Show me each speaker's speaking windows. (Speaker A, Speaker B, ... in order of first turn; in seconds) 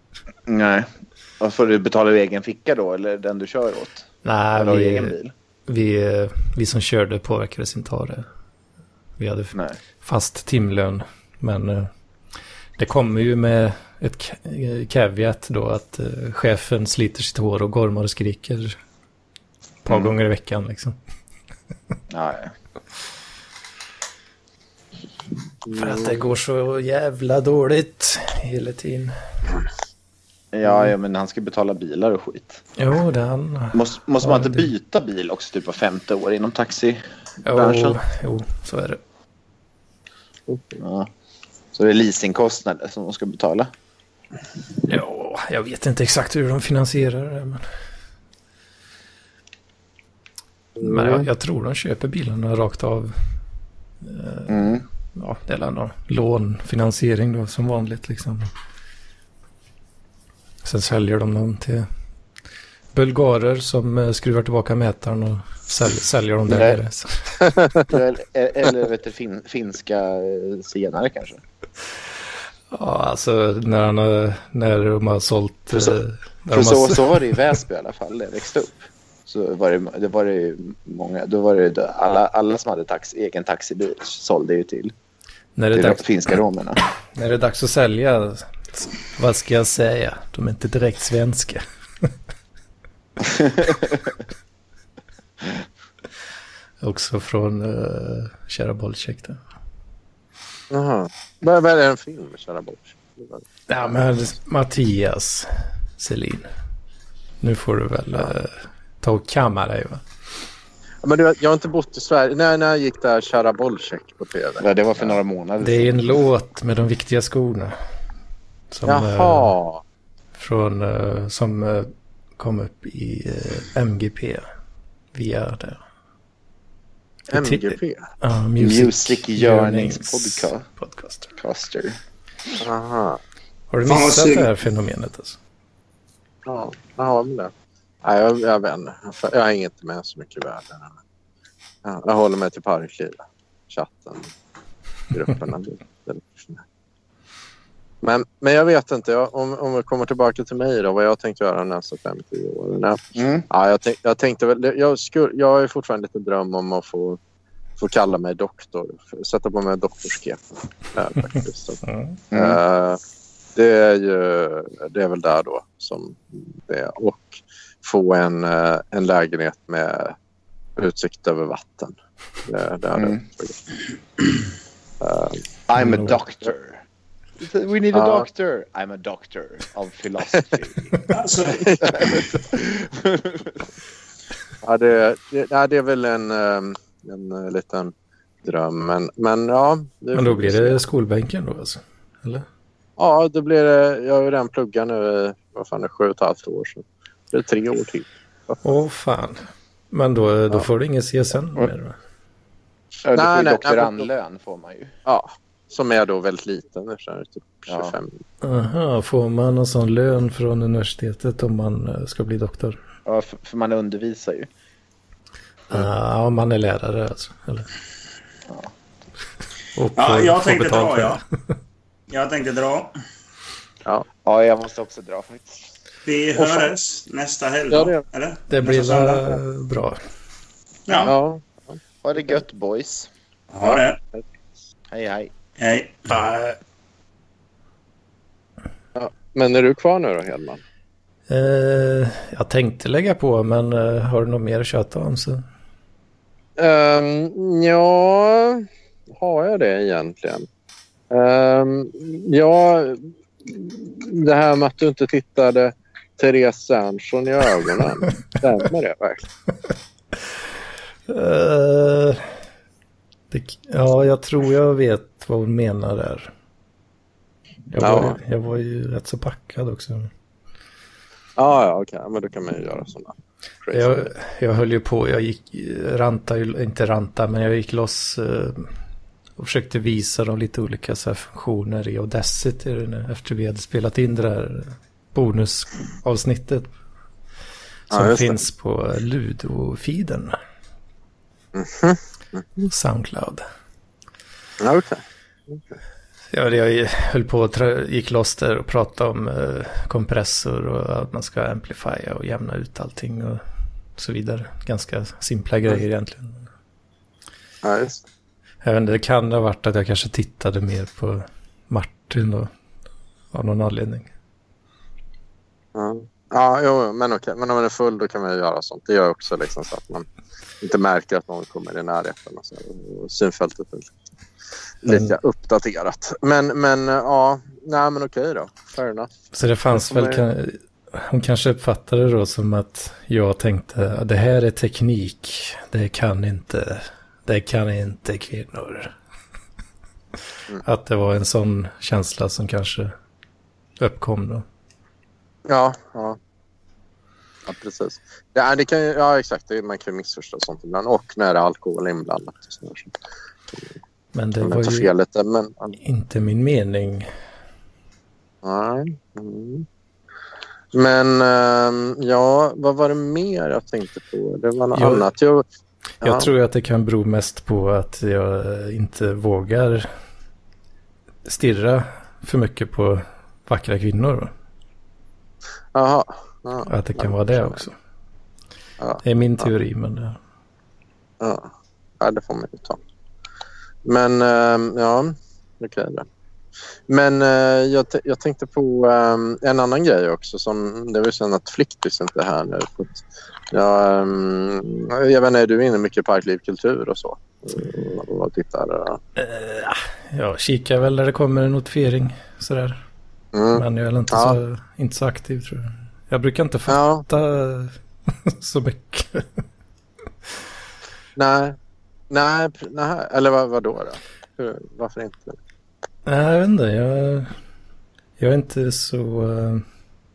Speaker A: 0.5-0.9, 1.4-4.1, 4.6-5.3, 9.5-9.8, 19.9-20.1, 22.1-22.5, 30.5-32.6, 33.7-38.0, 40.8-41.1, 41.7-43.7, 54.5-54.9, 66.5-66.8, 67.9-71.4, 75.7-76.0, 76.5-84.9, 85.7-86.8, 114.6-116.2, 128.6-130.7, 131.4-132.0, 153.2-153.5, 162.3-162.6, 172.9-173.2, 175.7-176.8, 177.4-180.9, 181.9-183.6, 203.0-204.9, 207.7-208.0, 213.1-214.5, 224.2-225.6, 232.0-233.1, 234.9-235.3
Speaker B: 4.2-5.2, 5.7-8.3, 9.2-11.9, 12.8-18.8, 19.9-21.0, 25.7-29.1, 32.8-34.7, 37.4-39.0, 44.9-47.6, 50.8-53.2, 54.0-58.5, 60.6-61.9, 62.9-67.4, 72.7-77.4, 85.6-86.4, 87.2-92.1, 96.8-99.4, 103.7-106.5, 107.4-110.0, 115.6-117.8, 118.7-119.5, 120.4-124.5, 125.1-125.8, 127.3-131.3, 133.7-135.4, 161.9-162.2, 175.8-176.2, 190.2-192.4, 198.6-202.0, 208.4-212.8, 215.7-217.7, 219.8-221.2, 228.5-230.0, 236.1-236.6, 241.3-245.4, 261.1-262.3, 263.3-266.3, 267.7-270.1, 273.7-278.7, 279.4-286.7, 287.9-290.4, 292.7-293.4, 296.3-303.4, 304.0-306.5, 308.6-312.5, 313.3-314.1, 324.9-325.2, 329.3-338.9, 340.6-342.9, 343.8-344.4, 354.1-354.9, 355.8-357.1, 364.8-365.1, 366.0-369.9, 371.3-374.3, 376.7-377.7, 379.0-380.2, 399.2-402.8, 403.6-409.3, 416.1-417.4, 418.2-419.6
Speaker C: 25.7-26.2, 40.5-40.8, 50.8-51.3, 100.7-104.0, 111.0-115.2, 118.9-119.8, 127.3-128.1, 132.6-133.2, 136.5-137.5, 138.0-140.9, 141.8-144.3, 145.1-146.6, 148.0-157.2, 157.8-161.8, 162.3-163.0, 163.6-170.2, 170.8-171.9, 172.5-173.6, 175.0-175.4, 177.9-178.2, 181.5-182.3, 184.6-187.9, 188.4-190.8, 193.0-198.6, 203.2-204.1, 205.1-208.2, 227.7-228.0, 230.9-232.3, 233.6-234.2, 239.0-240.6, 246.6-248.7, 249.2-250.5, 251.1-259.3, 267.8-268.2, 271.4-273.1, 273.6-274.1, 287.9-288.4, 291.5-292.7, 294.6-295.6, 307.6-308.0, 315.8-320.1, 320.6-323.9, 324.9-329.1, 329.8-330.2, 345.5-346.2, 347.5-352.9, 354.4-355.8, 358.4-359.6, 360.7-365.4, 366.0-366.3, 375.8-377.6, 378.8-379.5, 381.2-381.5, 382.0-382.8, 383.9-386.1, 386.9-399.0, 403.3-404.4, 406.7-407.1, 411.2-411.6, 412.1-415.4
Speaker D: 133.9-134.5, 181.1-182.2, 220.0-221.2, 222.1-222.9, 226.1-229.3, 230.9-231.2, 233.5-234.0, 235.6-236.1